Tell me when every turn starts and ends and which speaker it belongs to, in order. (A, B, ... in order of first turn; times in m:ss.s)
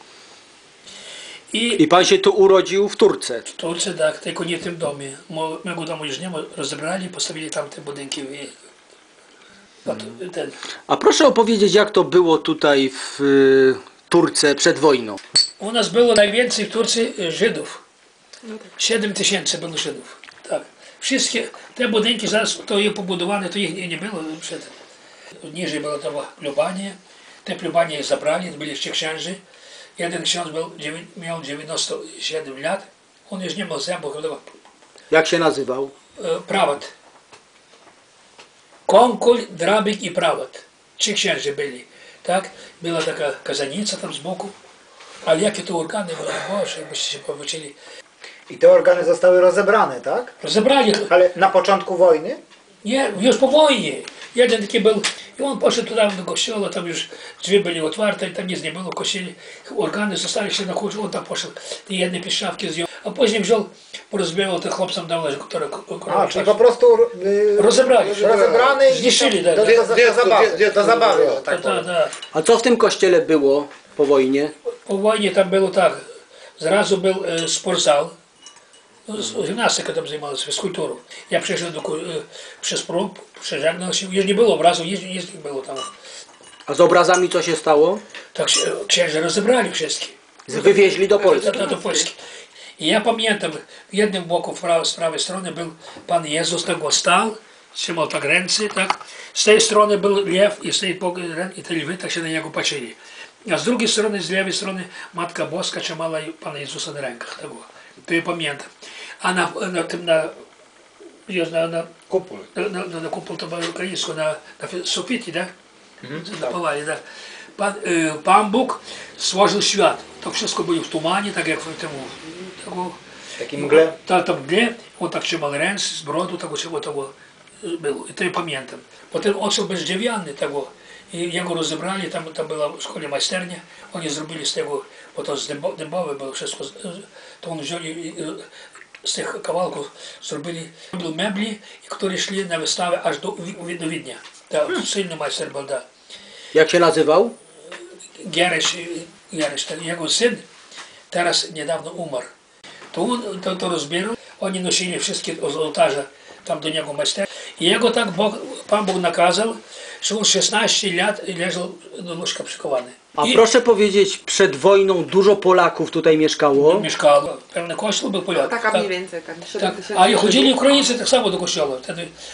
0:01.5-0:01.9 A
0:01.8-0:03.5 B
0:03.5-0:08.6 A
0:09.9-0:10.6 A
0:10.9-0:15.2 B
0:15.6-0:17.8 A
0:18.8-0:24.8 A
0:25.4-0:29.4 A
0:30.0-0:34.6 A
0:35.1-0:35.9 B
0:36.2-0:36.9 A
0:38.9-0:44.5 A
0:45.2-0:47.8 A
0:48.5-0:50.3 C
0:50.4-0:51.1 A
0:51.1-0:52.4 C
0:52.8-1:06.6 A
1:06.1-1:11.9 C
1:07.6-1:08.3 A
1:08.0-1:08.8 D
1:08.9-1:09.9 A
1:09.6-1:11.5 D
1:11.4-1:12.2 A
1:12.3-1:14.5 B
1:14.7-1:16.0 A
1:16.6-1:18.2 A
1:19.1-1:25.9 A
1:26.7-1:28.0 B
1:28.3-1:32.2 A
1:30.5-1:32.1 B
1:32.8-1:48.7 A
1:49.2-1:50.4 A
1:51.3-1:51.9 A
1:52.5-1:55.5 A
1:56.0-1:56.3 C
1:56.1-1:57.0 A
1:57.6-2:03.0 A
2:03.4-2:04.0 C
2:03.5-2:18.5 A
2:19.0-2:25.8 A
2:26.5-2:27.3 B
2:28.2-2:30.4 A
2:31.1-2:32.3 A
2:32.9-2:43.4 A
2:43.2-2:46.9 B
2:46.6-2:48.9 A
2:48.4-2:50.8 D
2:49.6-2:52.1 A